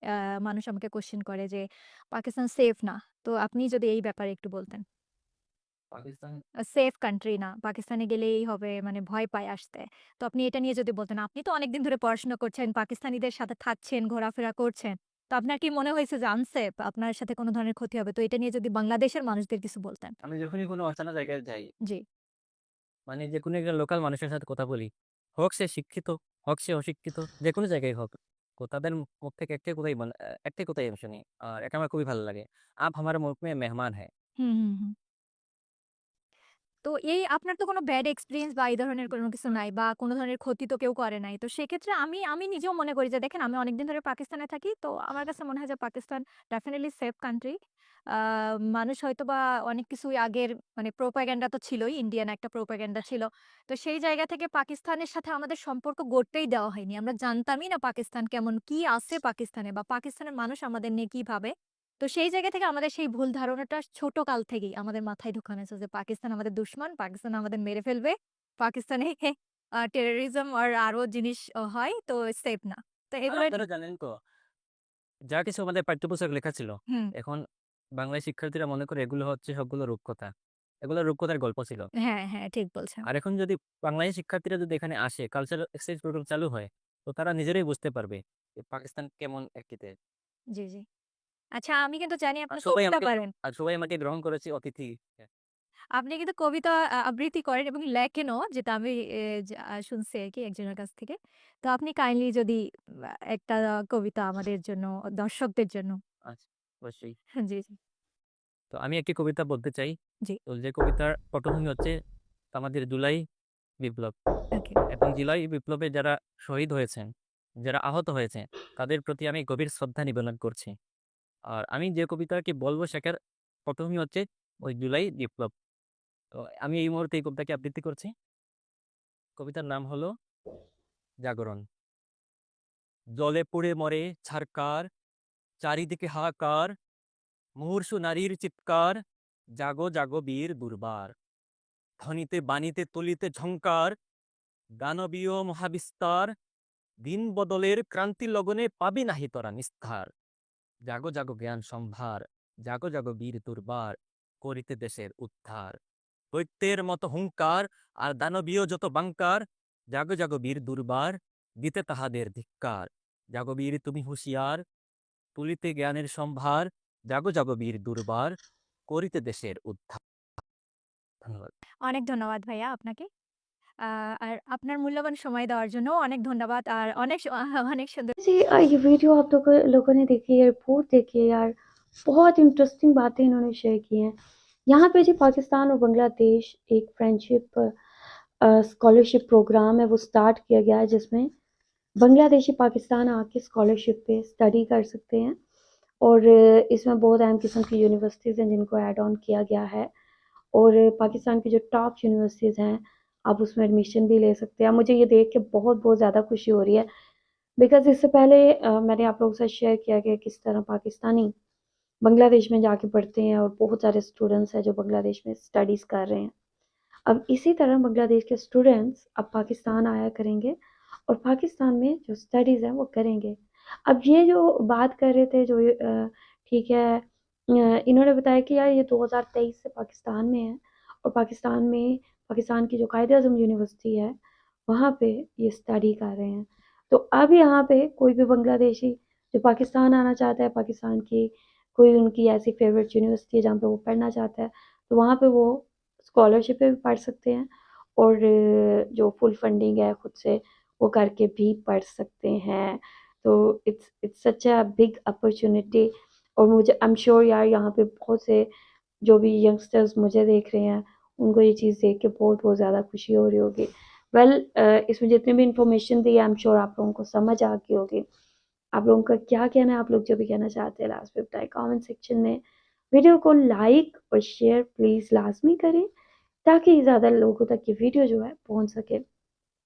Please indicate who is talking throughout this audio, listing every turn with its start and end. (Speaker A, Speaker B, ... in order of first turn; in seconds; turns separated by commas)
Speaker A: 0.4-4.8, Speaker B: 5.9-6.4, Speaker A: 6.7-20.1, Speaker B: 20.2-21.7, Speaker B: 23.1-24.9, Speaker B: 25.4-34.1, Speaker A: 34.4-34.9, Speaker A: 36.8-47.5, Speaker A: 48.1-73.6, Speaker B: 73.3-74.1, Speaker B: 75.3-77.4, Speaker B: 78.0-80.3, Speaker B: 80.8-81.9, Speaker A: 82.0-83.0, Speaker B: 83.1-89.9, Speaker A: 90.5-90.8, Speaker A: 91.6-93.3, Speaker B: 92.5-95.3, Speaker A: 96.0-102.6, Speaker A: 103.3-106.0, Speaker B: 106.3-107.2, Speaker A: 107.4-107.8, Speaker B: 108.7-109.9, Speaker B: 110.5-111.9, Speaker B: 112.5-113.2, Speaker B: 113.8-114.1, Speaker B: 114.9-117.1, Speaker B: 117.6-120.7, Speaker B: 121.5-123.2, Speaker B: 123.7-125.5, Speaker B: 126.4-128.1, Speaker B: 129.4-130.1, Speaker B: 131.2-131.6, Speaker B: 133.2-134.8, Speaker B: 135.6-136.7, Speaker B: 137.6-139.0, Speaker B: 139.6-141.1, Speaker B: 142.0-143.9, Speaker B: 144.8-146.3, Speaker B: 147.0-150.1, Speaker B: 150.9-155.8, Speaker B: 156.3-164.6, Speaker B: 165.3-168.3, Speaker B: 168.9-170.0, Speaker B: 171.2-171.5, Speaker A: 171.8-173.1, Speaker A: 173.8-178.1, Speaker C: 178.2-181.5, Speaker C: 182.1-184.1, Speaker C: 184.7-187.7, Speaker C: 188.4-191.3, Speaker C: 192.0-195.3, Speaker C: 196.0-199.9, Speaker C: 200.5-206.9, Speaker C: 207.6-211.3, Speaker C: 212.0-216.3, Speaker C: 217.1-220.6, Speaker C: 221.1-258.5, Speaker C: 259.0-268.0, Speaker C: 268.8-272.4, Speaker C: 272.9-275.9, Speaker C: 276.4-279.0